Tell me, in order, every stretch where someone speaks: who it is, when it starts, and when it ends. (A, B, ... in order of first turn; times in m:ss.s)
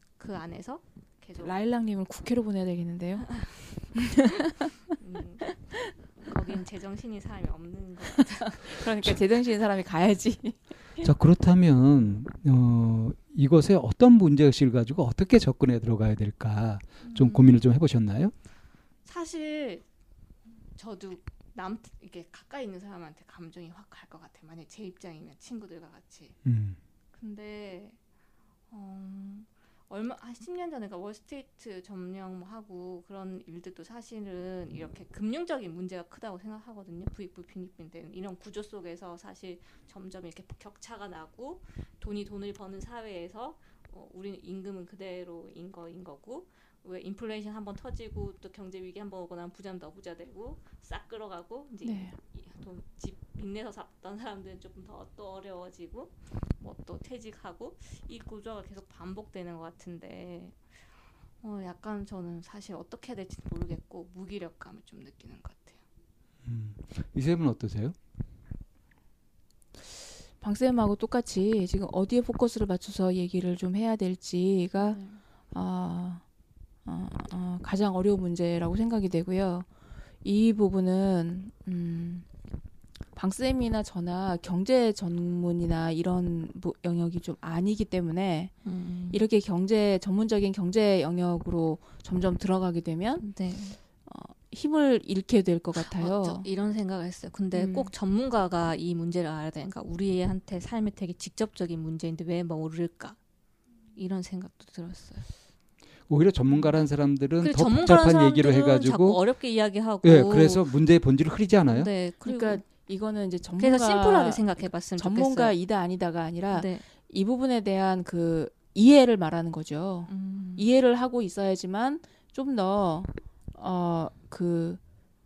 0:00.2-0:01.5 A
0:01.4-0:03.3 B
0:03.3-0:03.9 A
0:03.9-0:04.7 B
0:04.9-0:08.8 A
0:08.1-0:11.1 B
0:11.0-0:18.3 C
0:17.0-0:17.6 A
0:19.0-0:19.8 A
0:20.8-0:26.4 A
0:26.4-0:26.8 C
0:27.2-0:28.0 A
0:28.7-1:00.6 A
0:51.8-0:52.2 B
1:01.4-1:05.8 A
1:06.4-1:08.0 C
1:10.4-1:15.0 B
1:14.8-1:15.2 A
1:15.5-1:16.2 B
1:16.9-1:19.7 B
1:20.2-1:22.3 B
1:23.2-1:28.5 B
1:28.6-1:29.2 A
1:29.1-1:33.2 B
1:33.2-1:33.8 A
1:34.1-1:36.5 B
1:35.8-1:43.2 A
1:37.5-1:37.9 B
1:44.0-1:45.3 A
1:46.1-1:49.2 C
1:47.4-1:50.7 A
1:50.0-1:51.9 C
1:51.7-1:52.6 A
1:52.2-2:04.8 B
1:53.6-1:55.6 A
1:56.5-1:56.8 A
2:00.1-2:00.7 A